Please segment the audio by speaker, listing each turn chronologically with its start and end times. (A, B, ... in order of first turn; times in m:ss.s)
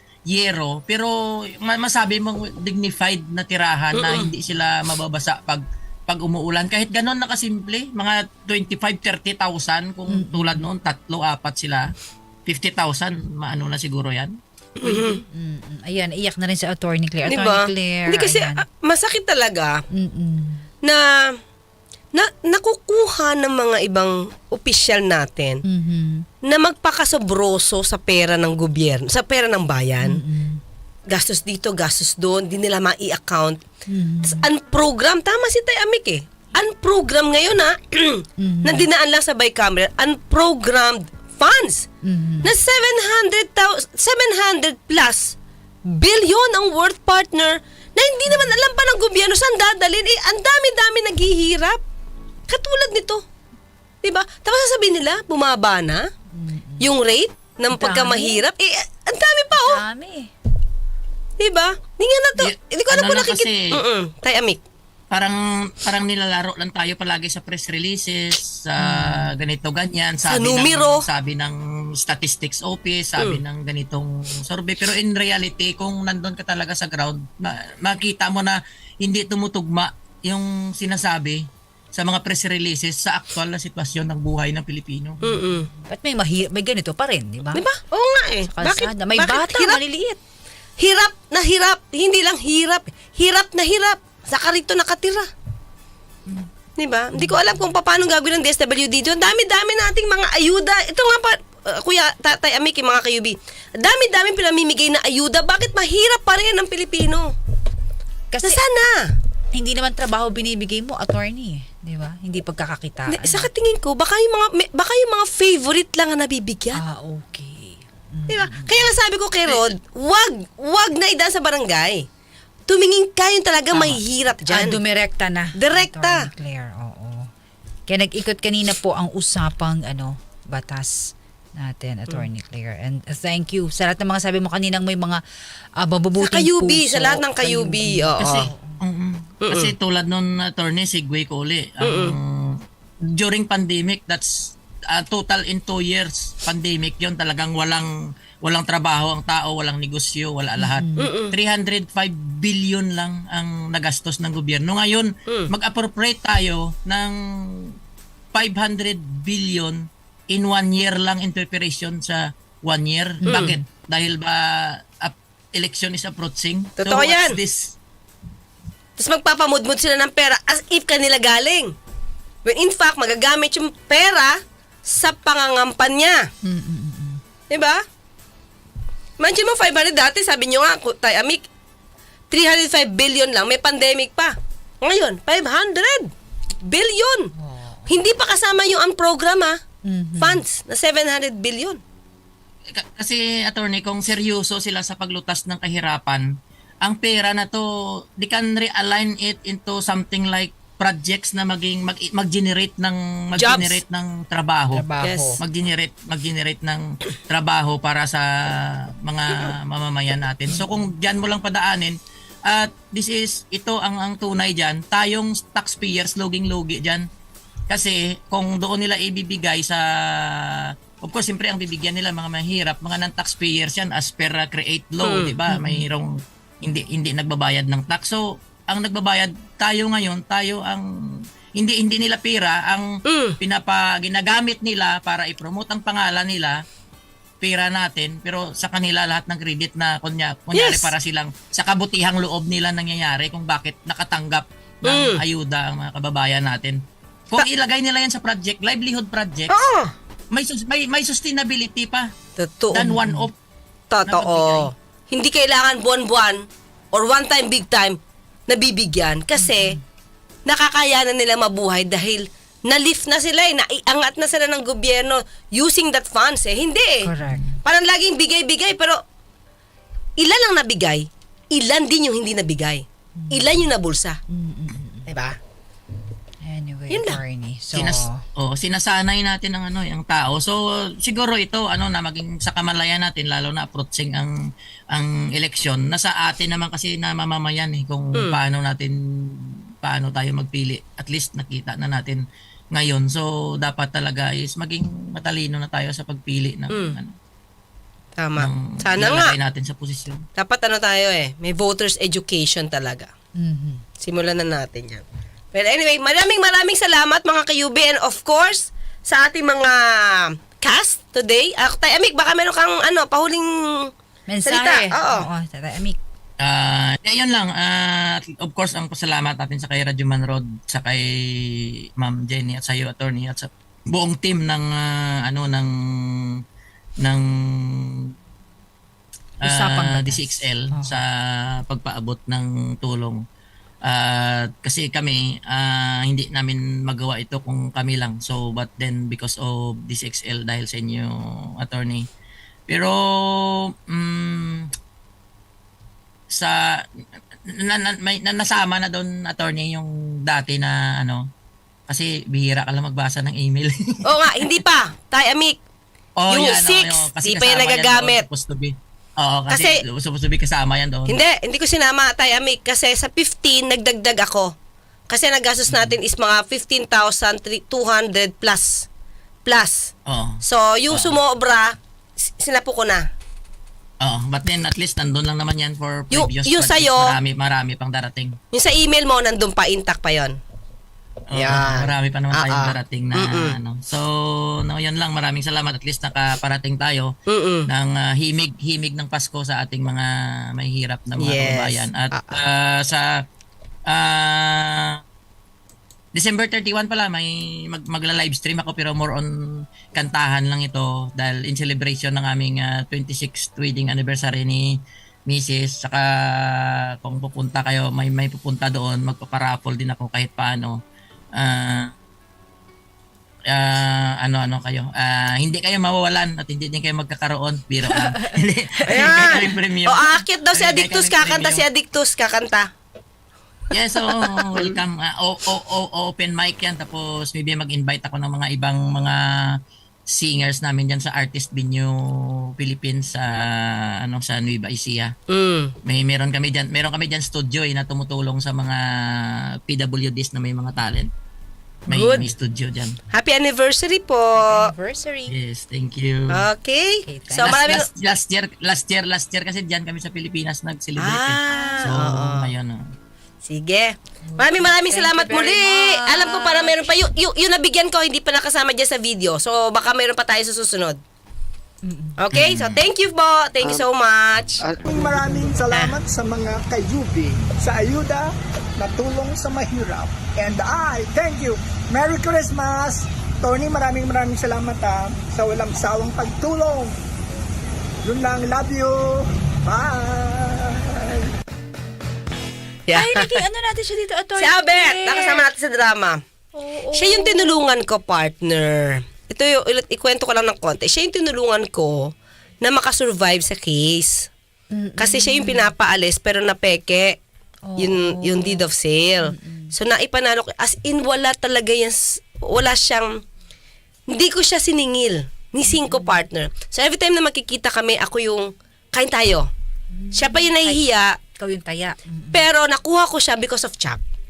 0:00.3-0:11.9 A
0:03.9-0:04.3 B
0:10.1-0:10.6 C
0:12.5-0:14.3 A
0:14.8-0:15.2 B
0:14.8-0:18.6 C
0:17.3-0:19.8 B
0:19.9-0:20.6 C
0:20.8-0:21.1 B
0:22.1-0:25.6 B
0:25.6-0:26.3 C
0:26.5-0:30.2 B
0:30.0-0:30.6 C
0:31.1-0:33.6 B
0:33.9-0:34.4 C
0:34.2-0:41.9 B
0:38.4-0:38.8 C
0:42.0-0:42.5 C
0:42.4-0:51.8 B
0:52.5-0:53.2 B
0:54.0-0:56.0 B
0:56.3-0:56.9 C
0:56.8-0:59.8 B
0:57.7-0:58.4 C
0:59.5-1:00.3 C
1:01.4-1:04.6 B
1:02.4-1:03.8 A
1:05.1-1:21.4 A
1:08.8-1:09.3 C
1:10.2-1:11.1 B
1:21.9-1:25.2 A
1:25.2-1:25.7 B
1:25.3-1:27.6 C
1:27.5-1:29.8 B
1:28.5-1:30.2 C
1:30.8-1:35.3 B
1:36.8-1:47.3 B
1:37.1-1:37.6 C
1:48.3-1:48.6 C
1:48.4-1:49.1 B
1:49.5-1:53.5 C
1:53.1-1:56.8 B
1:56.7-1:58.9 C
1:58.3-2:02.0 B
2:02.7-2:04.8 B
2:03.7-2:07.3 C
2:05.6-2:06.2 B
2:07.9-2:15.2 C
2:15.8-2:18.8 C
2:16.2-2:18.5 B
2:18.2-2:22.5 A
2:19.4-2:19.7 B
2:21.8-2:22.1 B
2:23.1-2:27.9 A
2:28.4-2:37.7 A
2:30.6-2:31.1 C
2:31.0-2:31.4 B
2:38.3-2:47.8 A
2:43.2-2:43.6 C
2:46.8-2:47.4 B
2:49.0-2:51.7 B
2:52.4-2:56.3 B
2:56.4-2:57.2 C
2:57.5-2:57.8 B
2:59.2-3:01.4 B
3:02.3-3:06.1 B
3:06.6-3:07.3 B
3:07.4-3:08.0 C
3:07.9-3:09.6 B
3:09.8-3:10.4 C
3:10.2-3:11.8 B
3:12.7-3:16.2 A
3:16.8-3:17.6 A
3:18.2-3:24.8 A
3:23.4-3:23.8 B
3:24.7-3:25.4 C
3:25.0-3:25.4 B
3:25.4-3:32.0 A
3:30.5-3:30.8 C
3:32.5-3:37.0 A
3:37.7-3:46.1 A
3:45.0-3:45.4 B
3:45.5-3:45.8 C
3:46.6-3:50.8 A
3:51.6-3:52.9 A
3:53.0-3:53.4 B
3:53.4-3:56.5 A
3:57.4-4:06.8 A
4:00.5-4:00.9 B
4:04.8-4:05.2 B
4:07.3-4:09.5 A
4:09.5-4:09.9 B
4:10.3-4:12.1 A
4:12.4-4:12.9 B
4:12.7-4:13.3 A
4:13.9-4:19.8 B
4:14.0-4:14.7 A
4:19.4-4:19.8 C
4:20.4-4:27.1 B
4:27.0-4:27.6 C
4:27.6-4:29.0 B
4:30.2-4:34.2 B
4:33.2-4:33.5 C
4:34.3-4:35.0 C
4:35.1-4:35.4 B
4:36.4-4:38.2 C
4:36.9-4:37.2 B
4:37.7-4:44.3 A
4:44.9-4:52.2 A
4:52.7-4:57.1 A
4:56.7-4:57.0 B
4:58.2-4:59.3 B
4:58.4-5:00.2 A
5:00.4-5:03.1 B
5:03.4-5:03.8 C
5:04.0-5:13.9 B
5:14.3-5:16.0 C
5:14.4-5:15.3 B
5:16.4-5:25.7 A
5:27.0-5:28.1 A
5:29.4-5:33.2 A
5:29.4-5:31.0 C
5:33.9-5:42.0 A
5:42.7-5:44.7 A
5:46.3-5:46.8 A
5:47.5-5:51.2 A
5:51.9-5:54.5 A
5:54.0-5:55.6 B
5:56.2-6:01.2 A
5:56.3-5:58.2 B
5:59.5-5:59.8 B
6:01.1-6:04.5 B
6:05.1-6:08.9 B
6:05.7-6:05.9 A
6:09.4-6:13.0 B
6:10.0-6:10.4 A
6:14.0-6:18.4 A
6:16.1-6:17.2 B
6:18.5-6:20.3 B
6:21.3-6:27.1 A
6:21.3-6:23.6 B
6:27.3-6:27.7 B
6:27.7-6:33.0 A
6:31.2-6:32.4 B
6:33.9-6:35.0 A
6:36.1-6:39.3 A
6:39.9-6:44.8 A
6:45.3-6:50.8 A
6:51.4-6:51.9 A
6:53.5-7:01.6 A
6:57.9-6:59.5 C
6:58.9-7:02.7 B
7:03.7-7:09.5 A
7:10.1-7:15.1 A
7:15.3-7:15.7 B
7:15.8-7:18.8 A
7:19.6-7:21.1 A
7:21.9-7:23.0 A
7:21.9-7:22.3 B
7:23.1-7:24.7 B
7:24.4-7:25.3 C
7:25.3-7:26.4 A
7:26.3-7:27.9 B
7:27.0-7:27.6 C
7:27.4-7:32.8 A
7:31.0-7:32.5 B
7:31.5-7:31.9 C
7:33.4-7:41.0 B
7:34.2-7:36.9 C
7:41.8-7:42.2 C
7:42.2-7:44.6 B
7:42.3-7:42.8 A
7:44.9-7:57.0 D
7:45.7-7:46.0 C
7:58.0-8:01.3 D
8:02.9-8:05.5 C
8:02.9-8:03.4 B
8:04.4-8:06.2 B
8:06.5-8:07.6 C
8:06.9-8:12.1 B
8:12.6-8:14.3 B
8:14.7-8:15.7 C
8:15.0-8:17.2 B
8:17.6-8:18.7 C
8:17.8-8:23.1 B
8:19.2-8:19.7 C
8:24.1-8:29.5 B
8:25.6-8:26.2 C
8:29.9-8:32.4 C
8:30.2-8:31.1 B
8:32.3-8:34.0 B